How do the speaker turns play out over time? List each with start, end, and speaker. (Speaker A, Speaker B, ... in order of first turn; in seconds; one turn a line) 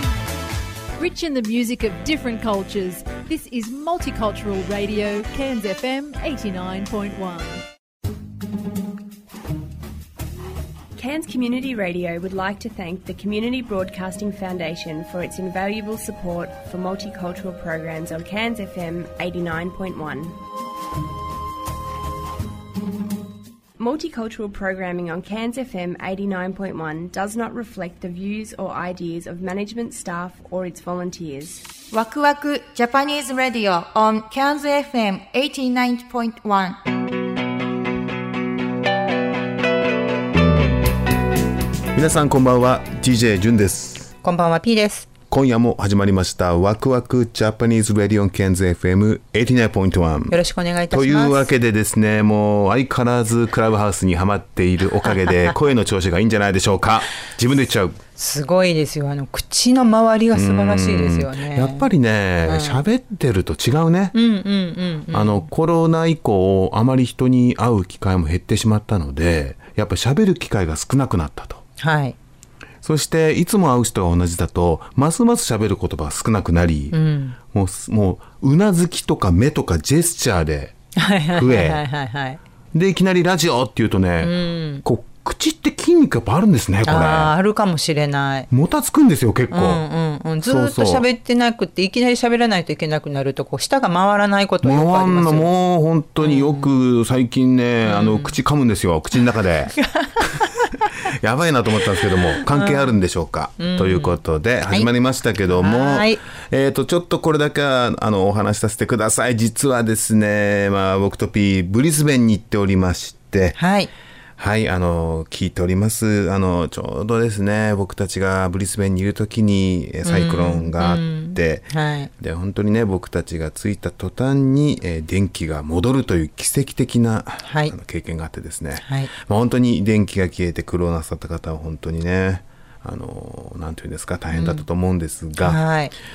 Speaker A: 1.0-7.6
Speaker B: 11.0-20.4
Speaker B: 23.8-31.6
Speaker C: 31.9-36.8
Speaker D: 42.0-44.1
Speaker E: 44.2-45.1
Speaker D: 45.3-58.0
Speaker E: 50.3-51.5
Speaker E: 58.2-61.9
Speaker D: 60.3-64.2
Speaker E: 62.5-62.8
Speaker E: 64.1-65.5
Speaker D: 65.1-71.6
Speaker E: 71.8-72.2
Speaker D: 72.8-77.0
Speaker E: 76.9-77.4
Speaker D: 77.5-80.8
Speaker E: 81.0-82.4
Speaker D: 81.3-81.8
Speaker D: 82.7-87.3
Speaker E: 84.2-84.8
Speaker E: 86.8-88.5
Speaker D: 88.5-89.8
Speaker E: 89.5-95.5
Speaker D: 90.4-91.0
Speaker D: 94.6-100.5
Speaker E: 96.2-96.7
Speaker E: 97.8-98.4
Speaker D: 101.1-113.6
Speaker E: 102.4-103.0
Speaker E: 103.6-104.9
Speaker E: 105.5-106.2
Speaker E: 113.6-113.9
Speaker D: 114.4-135.6
Speaker E: 120.0-122.1
Speaker E: 127.4-127.7
Speaker E: 128.8-129.1
Speaker E: 134.3-134.7
Speaker E: 135.4-135.9